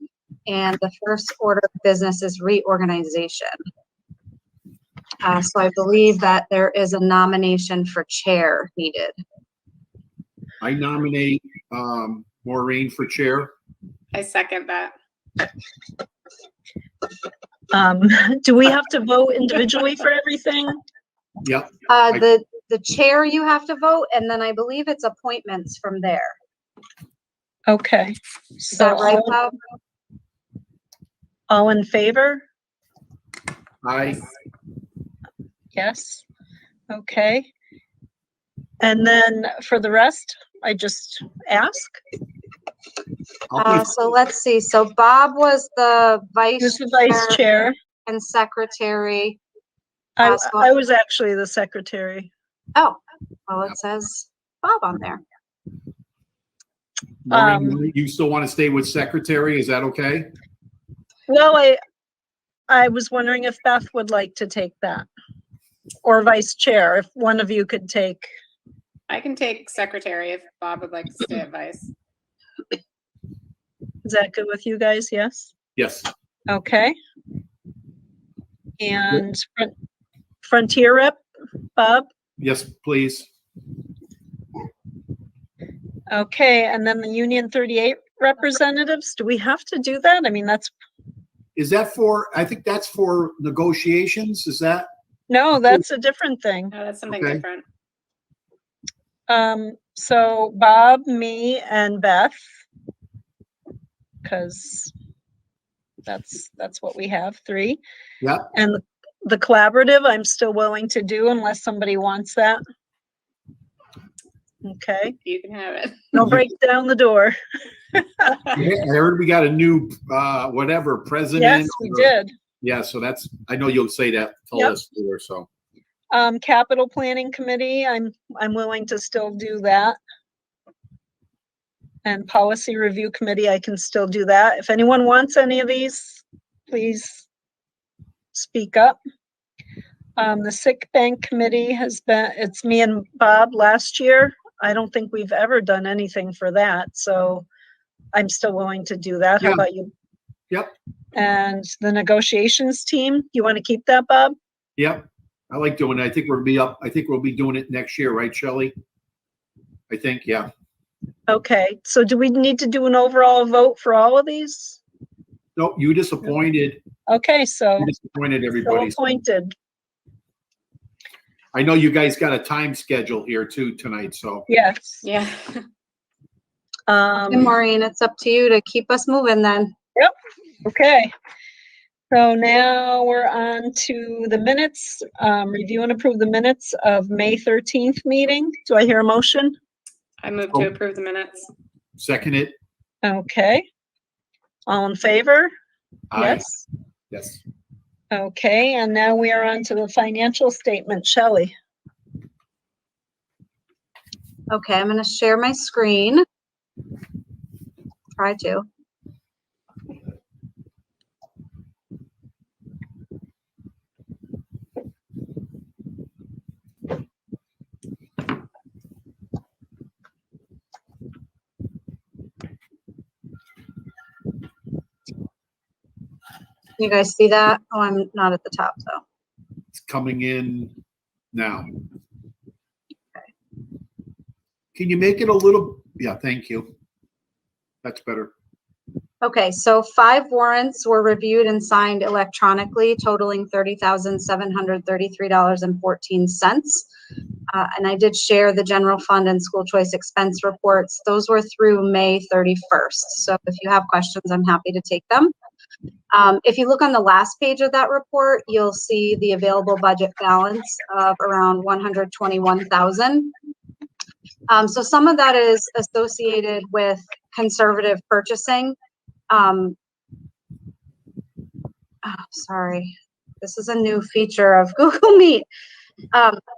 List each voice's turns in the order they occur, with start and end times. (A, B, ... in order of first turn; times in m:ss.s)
0:00.5-0:03.5 A
0:05.2-0:09.2 A
0:10.6-0:13.5 B
0:14.1-0:15.0 C
0:17.7-0:20.8 D
0:21.4-0:22.2 B
0:21.9-0:26.4 A
0:27.7-0:29.3 D
0:28.7-0:29.6 A
0:31.5-0:32.4 D
0:33.8-0:34.2 B
0:35.7-0:36.2 D
0:36.9-0:37.5 D
0:38.8-0:42.0 D
0:43.5-0:43.8 B
0:43.6-0:47.4 A
0:46.6-0:47.7 D
0:48.0-0:49.4 A
0:50.2-0:52.3 D
0:50.2-0:50.7 A
0:52.7-0:55.2 A
0:57.3-1:00.3 B
0:57.3-0:57.8 D
1:01.3-1:01.8 D
1:02.7-1:05.1 D
1:06.0-1:08.3 D
1:09.1-1:11.9 C
1:14.0-1:15.5 D
1:15.8-1:16.1 B
1:16.5-1:17.0 D
1:18.8-1:19.7 D
1:20.4-1:21.2 D
1:21.8-1:22.1 D
1:22.4-1:23.3 B
1:26.1-1:30.7 D
1:31.6-1:34.9 B
1:35.3-1:36.7 D
1:36.7-1:37.6 C
1:37.1-1:37.4 B
1:39.3-1:42.4 D
1:44.2-1:44.9 D
1:46.0-1:47.8 D
1:48.2-1:48.5 B
1:48.5-1:52.6 D
1:54.6-1:55.2 D
1:55.2-1:56.1 C
1:56.1-1:57.4 D
1:57.9-1:58.3 D
1:58.6-2:05.5 B
2:01.4-2:02.3 D
2:06.1-2:10.0 D
2:12.0-2:17.2 D
2:18.3-2:19.0 D
2:20.2-2:27.4 D
2:28.1-2:29.9 D
2:31.1-2:34.4 D
2:34.8-2:38.8 B
2:39.9-2:40.5 B
2:41.3-2:44.8 D
2:45.6-2:46.8 B
2:47.1-2:47.9 D
2:47.8-2:49.0 B
2:48.6-2:49.5 D
2:51.5-2:54.5 B
2:54.5-2:55.0 D
2:55.0-2:55.6 C
2:56.9-2:57.5 D
2:57.3-2:59.7 A
3:00.6-3:01.1 D
3:02.1-3:09.5 D
3:10.2-3:11.5 C
3:12.0-3:12.5 B
3:13.0-3:13.7 D
3:14.7-3:15.5 D
3:16.1-3:16.5 B
3:16.1-3:16.6 D
3:17.1-3:17.4 B
3:18.1-3:21.5 D
3:24.5-3:26.2 A
3:28.2-3:28.7 A
3:46.8-3:49.0 A
3:49.8-3:50.7 B
3:51.3-3:51.7 B
3:54.8-3:56.7 B
3:57.8-3:58.3 B
3:59.2-4:06.9 A
4:07.5-4:15.3 A
4:16.1-4:23.3 A
4:24.5-4:28.8 A
4:29.3-4:29.8 A
4:32.0-4:35.5 A
4:36.1-4:36.4 A